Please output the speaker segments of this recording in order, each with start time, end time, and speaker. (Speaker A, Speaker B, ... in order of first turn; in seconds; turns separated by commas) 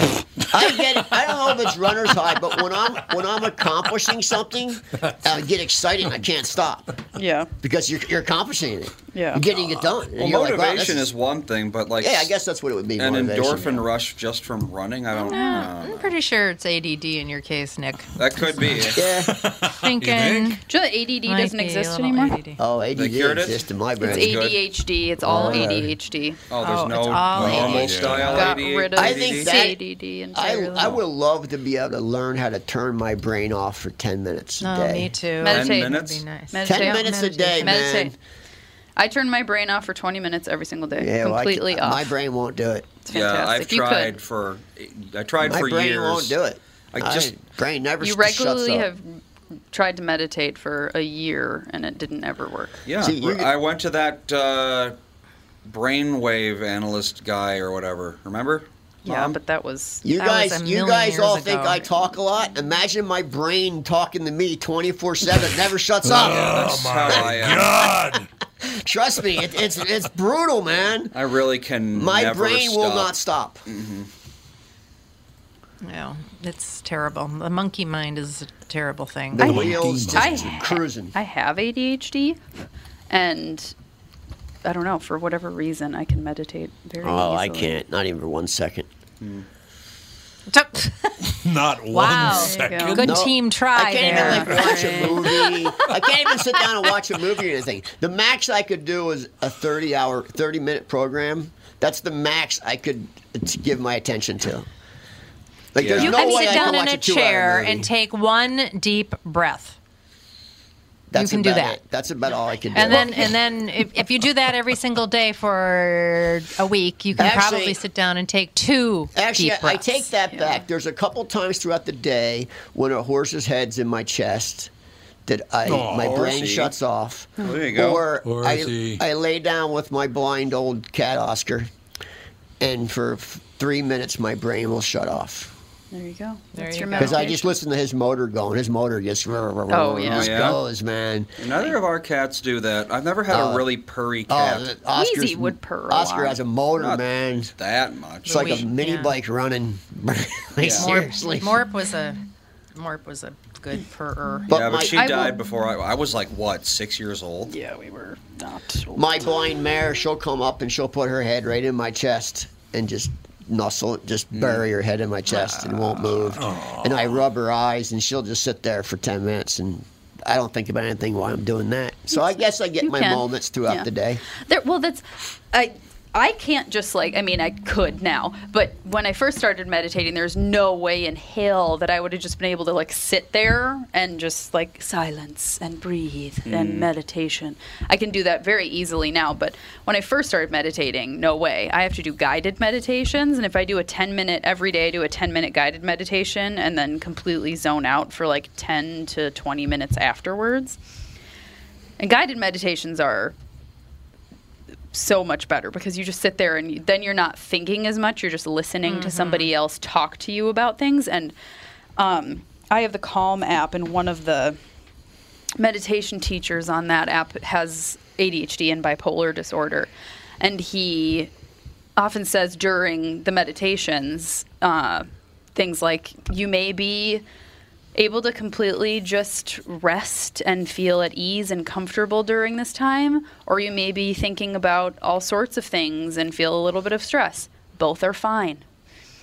Speaker A: 0.5-7.0, Speaker B: 7.2-7.5, Speaker A: 7.6-11.1, Speaker B: 9.1-9.4, Speaker C: 10.1-12.3, Speaker A: 12.0-13.8, Speaker C: 13.0-16.2, Speaker D: 15.2-18.2, Speaker B: 15.3-15.7, Speaker C: 18.1-19.2, Speaker E: 18.7-20.6, Speaker A: 18.9-19.4, Speaker D: 19.6-20.6, Speaker B: 20.7-22.4, Speaker D: 21.2-22.6, Speaker A: 22.6-24.5, Speaker C: 22.9-24.6, Speaker B: 24.0-26.4, Speaker A: 25.2-25.9, Speaker D: 25.3-25.7, Speaker C: 26.5-29.5, Speaker D: 26.6-28.4, Speaker E: 27.3-28.5, Speaker A: 27.4-27.8, Speaker B: 28.2-31.0, Speaker A: 28.7-29.8, Speaker A: 30.3-35.1, Speaker D: 34.6-37.9, Speaker B: 35.4-37.1, Speaker C: 35.4-36.2, Speaker A: 36.6-38.2, Speaker B: 37.6-38.1, Speaker B: 39.0-42.1, Speaker A: 41.0-43.0, Speaker B: 43.1-44.1, Speaker C: 43.1-46.4, Speaker A: 45.4-48.9, Speaker C: 46.9-47.3, Speaker B: 48.0-49.2, Speaker B: 49.7-52.8, Speaker C: 52.9-55.0, Speaker A: 53.0-53.5, Speaker C: 55.6-59.4, Speaker B: 59.0-60.0, Speaker A: 60.0-66.8, Speaker D: 60.1-61.9, Speaker E: 66.0-68.3, Speaker C: 66.5-67.8, Speaker A: 68.6-71.2, Speaker C: 71.1-74.1, Speaker A: 71.9-73.6, Speaker D: 75.8-79.7, Speaker A: 79.3-81.1, Speaker E: 79.4-80.6, Speaker B: 79.5-82.4, Speaker B: 83.1-83.7, Speaker B: 84.6-87.8, Speaker A: 87.0-88.9, Speaker C: 89.2-89.5, Speaker D: 90.5-91.4, Speaker E: 91.3-93.2, Speaker D: 91.9-96.3, Speaker B: 92.2-93.0, Speaker A: 93.0-104.7, Speaker B: 94.0-95.3, Speaker A: 105.7-107.9, Speaker C: 105.8-106.1, Speaker D: 105.9-109.8, Speaker B: 106.3-106.8, Speaker A: 111.1-113.4, Speaker D: 111.2-111.8, Speaker D: 112.7-120.0, Speaker A: 117.2-117.8, Speaker A: 119.1-124.7, Speaker B: 120.3-120.6, Speaker A: 125.2-131.7, Speaker E: 125.6-126.4, Speaker C: 125.8-126.7, Speaker B: 127.4-127.7, Speaker C: 127.4-128.1, Speaker E: 128.2-129.0, Speaker A: 132.6-135.5, Speaker B: 135.9-137.5, Speaker D: 136.6-137.3, Speaker A: 136.9-141.4, Speaker B: 139.7-140.4, Speaker C: 140.1-140.6, Speaker C: 141.4-144.7, Speaker A: 143.3-143.7, Speaker A: 144.3-147.5, Speaker B: 144.9-146.4, Speaker C: 146.8-147.0, Speaker C: 147.6-148.6, Speaker D: 148.2-149.1, Speaker A: 148.2-151.6, Speaker C: 150.6-150.9, Speaker D: 150.7-152.2, Speaker D: 152.7-154.5, Speaker A: 154.5-155.3, Speaker C: 154.5-157.5, Speaker B: 154.8-155.4, Speaker B: 157.5-159.3, Speaker A: 158.9-174.2, Speaker C: 164.3-164.6, Speaker B: 165.5-166.0, Speaker E: 166.4-167.2, Speaker B: 172.1-200.8, Speaker C: 186.4-186.9, Speaker B: 202.0-203.3, Speaker B: 204.9-211.3, Speaker D: 208.8-209.5, Speaker B: 212.0-214.6, Speaker B: 215.6-221.3, Speaker B: 222.0-227.2, Speaker B: 227.9-238.6